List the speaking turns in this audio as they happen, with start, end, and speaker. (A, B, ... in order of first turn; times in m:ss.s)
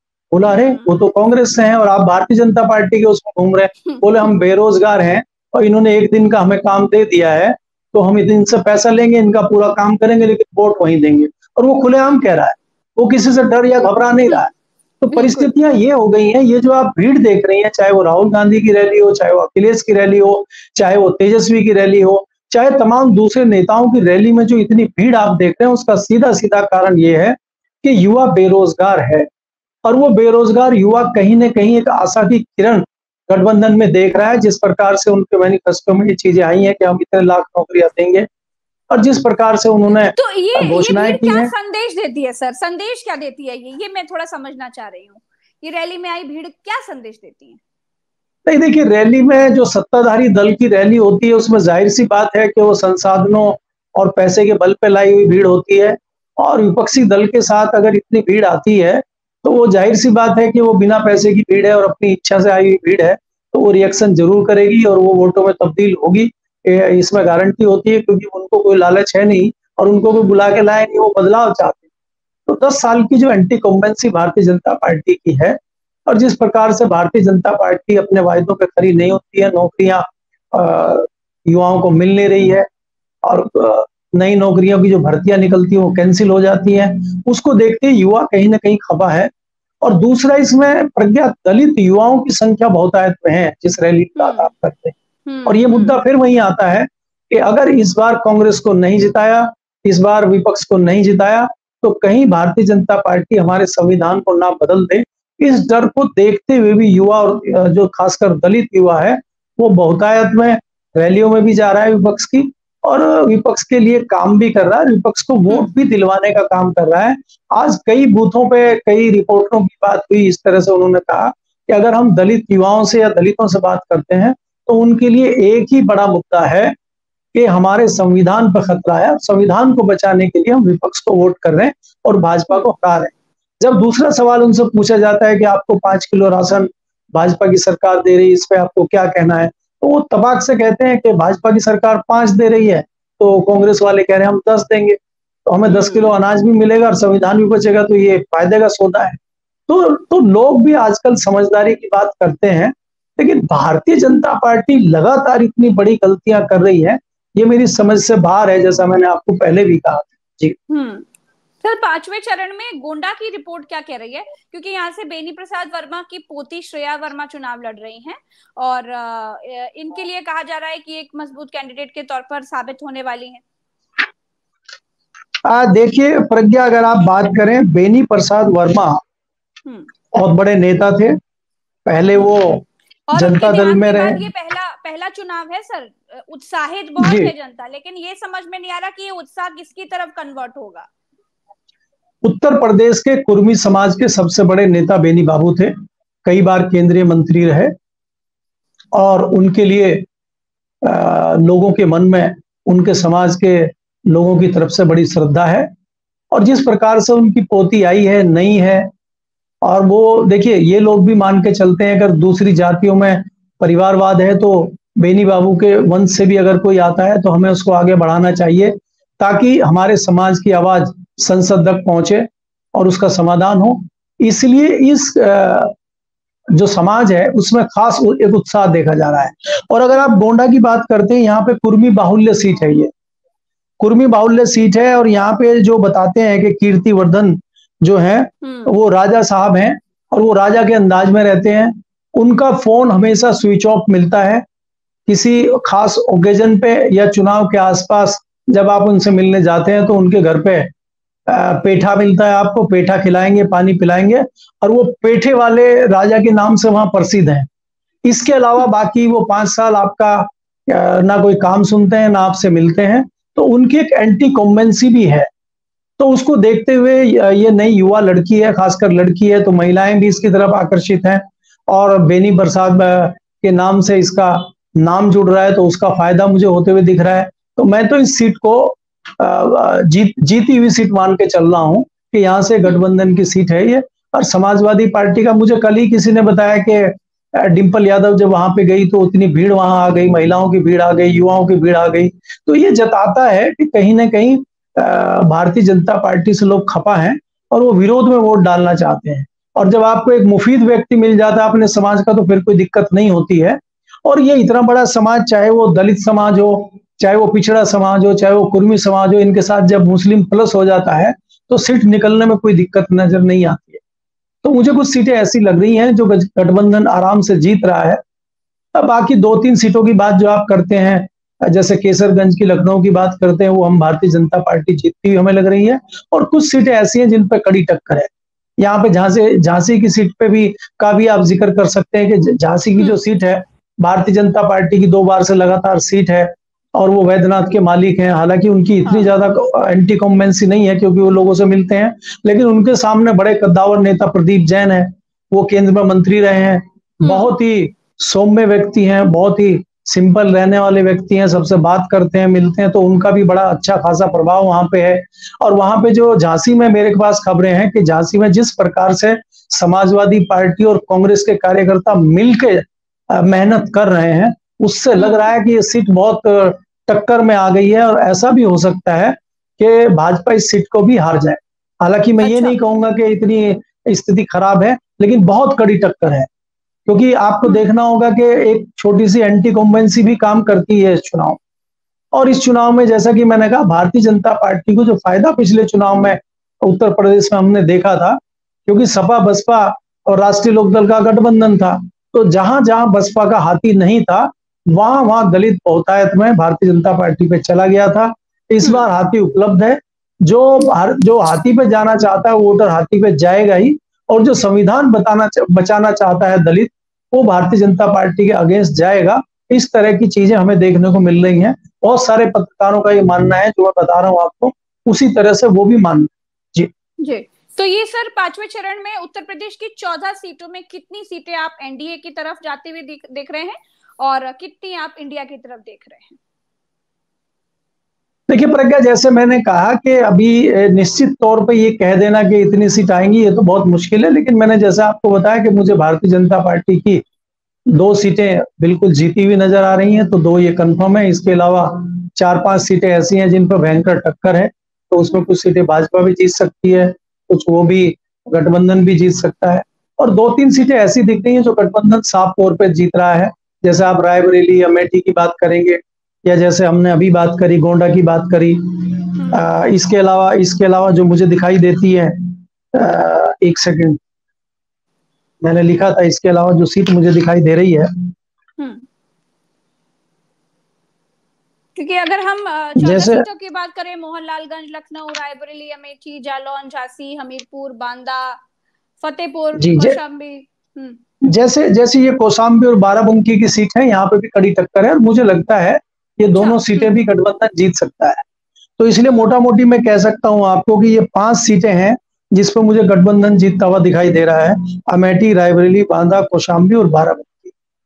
0:00.3-0:29.3 A
0:00.5-0:00.9 B
0:15.1-0:15.5 B
0:29.8-0:38.3 A
0:38.9-0:41.5 A
0:40.1-0:47.6 B
0:48.5-1:11.9 A
1:10.1-1:10.4 B
1:12.5-1:22.7 A
1:23.2-1:29.3 A
1:29.8-2:06.8 A
1:34.2-1:34.5 B
1:35.3-1:36.0 B
2:07.3-2:40.6 A
2:25.8-2:26.0 B
2:40.7-2:41.1 B
2:41.6-2:53.4 B
2:55.5-2:59.0 A
3:00.1-3:01.2 A
3:01.9-3:04.2 A
3:03.1-3:10.9 B
3:07.0-3:07.3 A
3:12.2-3:15.7 A
3:16.2-3:17.7 A
3:19.0-3:20.1 A
3:20.8-3:25.7 A
3:26.3-3:28.9 A
3:29.6-3:45.8 A
3:46.5-3:52.9 A
3:53.8-4:04.4 A
3:58.4-3:58.7 B
4:05.1-4:10.7 A
4:11.3-4:17.5 A
4:18.0-4:25.3 A
4:26.0-5:13.8 A
5:14.4-5:18.0 A
5:18.7-6:16.3 A
5:47.0-5:47.3 B
6:05.0-6:05.3 B
6:12.2-6:12.6 B
6:16.9-6:21.4 A
6:22.1-6:56.7 A
6:57.0-7:06.2 B
7:08.3-7:17.0 A
7:17.7-7:44.0 A
7:45.4-7:48.1 A
7:48.6-7:48.8 B
7:51.8-7:58.4 B
7:52.8-7:53.2 A
7:59.0-8:01.0 B
7:59.6-8:00.0 A
8:01.2-8:08.2 A
8:06.3-8:06.9 B
8:08.8-8:17.5 A